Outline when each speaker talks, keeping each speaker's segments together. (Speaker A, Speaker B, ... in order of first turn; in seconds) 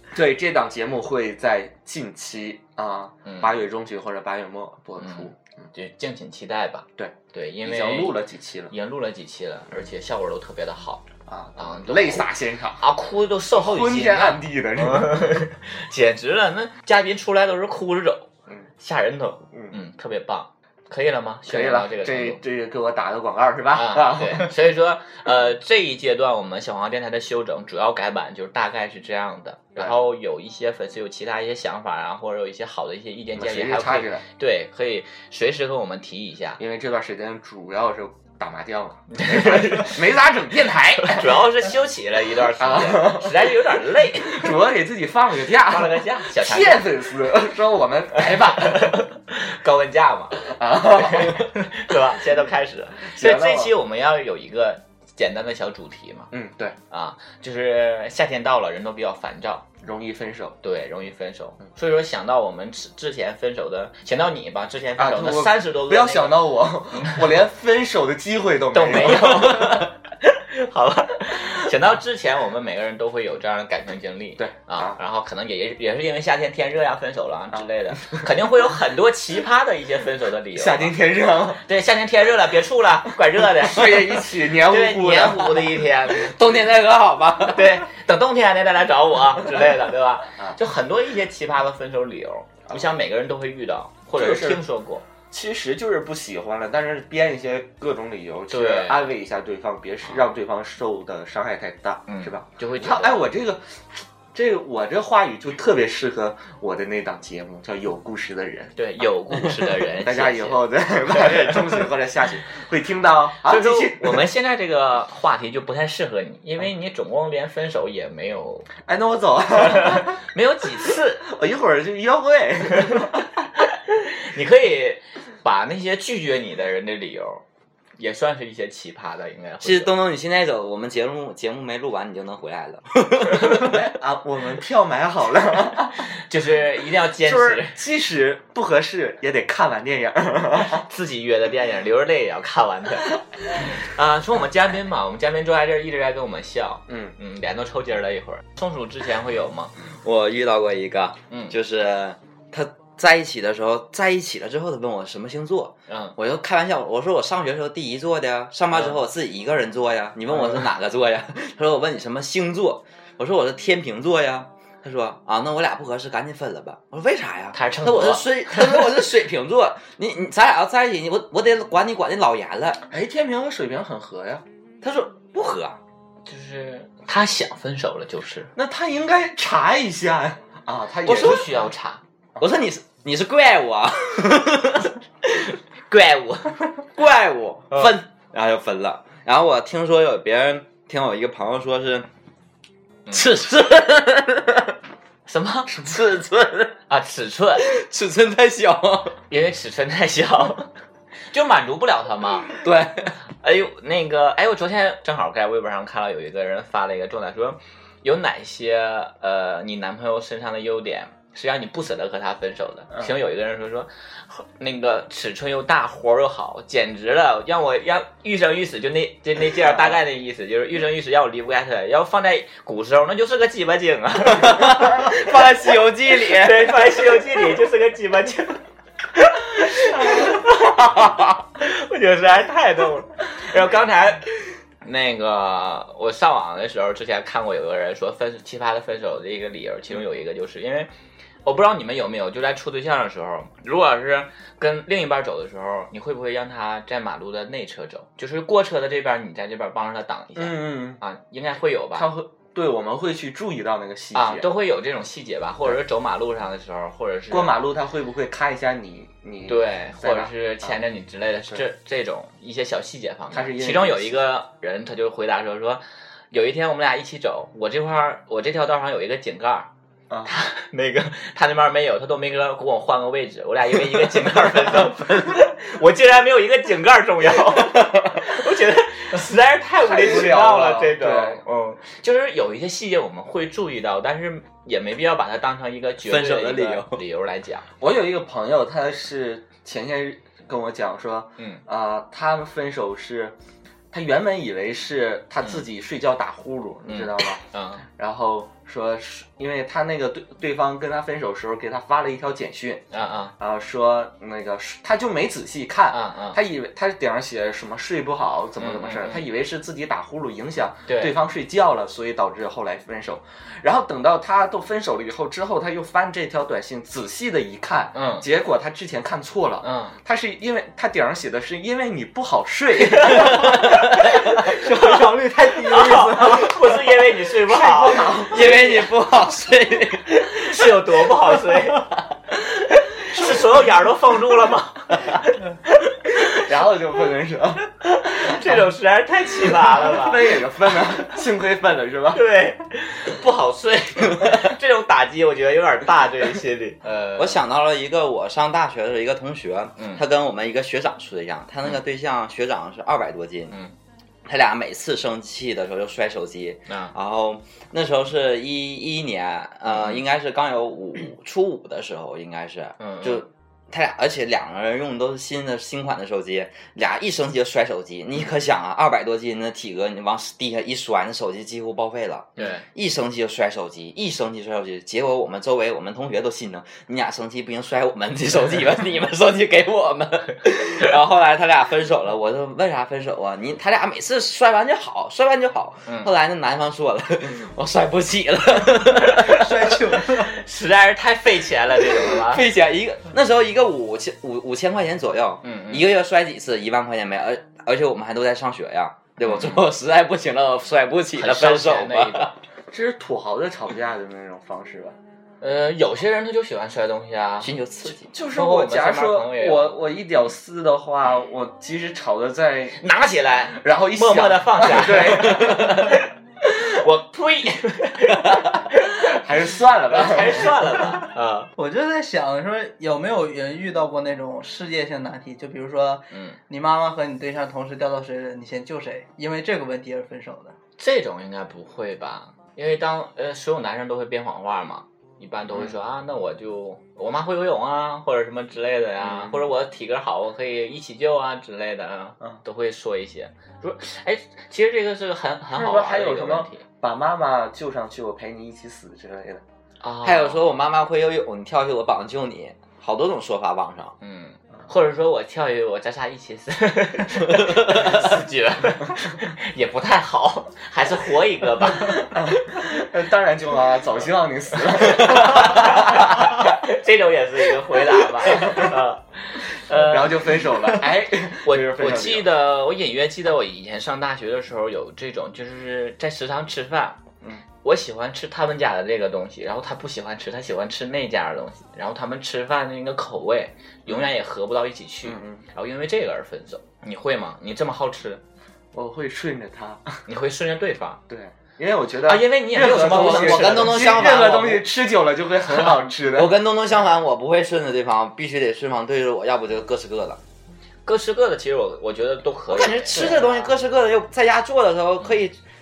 Speaker A: 0.1-5.7, 7.0-8.7, 11.2-12.8, 13.6-15.3, 19.5-19.8, 21.5-24.5, 33.4-34.2, 36.6-41.5, 42.5-49.0, 50.5-51.5, 53.0-53.7, 56.3-56.8, 59.8-60.6, 65.0-69.9, 74.4-75.0, 77.5-78.3, 80.5-81.6, 83.6-85.6, 94.1-94.6, 95.3-103.6, 104.3-108.7, 109.3-114.2, 118.8-120.2, 121.2-123.3, 133.3-136.0, 137.2-140.8, 146.9-147.2, 172.9-174.4, 178.5-181.5, 219.6-219.9, 250.3-251.0, 251.9-254.5, 257.3-260.8, 263.3-264.3, 279.8-281.4, 287.8-293.3, 293.9-297.4, 298.0-302.8, 303.4-324.1, 327.4-328.9, 336.3-337.6, 338.2-338.6, 339.4-342.2, 402.7-405.0, 407.9-412.8, 413.5-415.9, 419.1-420.6, 435.5-435.8, 439.0-439.4, 445.5-449.4, 461.6-466.4, 468.0-468.7, 469.7-472.3, 485.0-485.4, 488.7-490.0, 491.1-496.4
Speaker B: 3.2-3.5, 5.0-8.2, 8.7-18.3, 18.8-22.4, 23.7-36.6, 39.1-40.0, 41.0-44.5, 45.6-46.9, 48.2-56.3, 56.9-59.6, 60.6-67.2, 68.7-80.9, 81.6-86.3, 87.5-95.0, 98.5-99.1, 102.1-103.3, 108.8-111.9, 113.4-118.7, 119.6-121.2, 123.9-127.4, 128.0-129.9, 136.3-137.8, 140.7-149.7, 155.9-156.1, 158.7-159.0, 167.5-168.8, 176.2-178.5, 181.0-182.0, 185.9-186.6, 195.3-195.8, 196.9-197.6, 199.3-200.7, 201.3-202.6, 203.4-225.2, 226.3-228.6, 229.2-234.2, 234.8-240.9, 241.4-252.1, 254.1-257.6, 259.5-269.7, 270.2-287.7, 296.9-297.8, 302.9-303.3, 305.9-306.4, 308.6-309.2, 310.9-311.1, 317.9-318.3, 319.6-320.0, 322.9-323.5, 325.6-328.6, 330.2-331.9, 332.6-336.4, 337.8-340.4, 342.1-347.4, 356.7-356.9, 359.7-360.0, 362.8-363.2, 372.4-372.6, 390.2-392.4, 395.4-395.9, 399.2-399.6, 401.1-402.3, 405.4-407.5, 408.3-409.8, 412.8-419.1, 419.9-421.5, 426.1-426.4, 430.8-446.6, 449.8-450.4, 454.0-462.2, 464.9-470.4, 471.4-477.0, 477.6-488.2, 490.1-491.0, 492.1-494.4, 500.8-503.5
Speaker C: 86.1-87.7, 129.6-133.7, 150.0-172.8, 174.8-175.8, 182.4-184.9, 186.9-192.1, 193.1-194.7, 195.8-196.7, 197.6-199.2, 202.6-203.1, 224.3-227.0, 286.0-287.0, 328.3-330.3, 347.2-353.5, 354.2-389.8, 391.8-402.4, 407.4-408.1, 450.0-453.9, 492.6-494.6, 496.1-500.2, 502.5-505.4
Speaker D: 324.4-326.6, 389.1-390.3, 421.6-430.5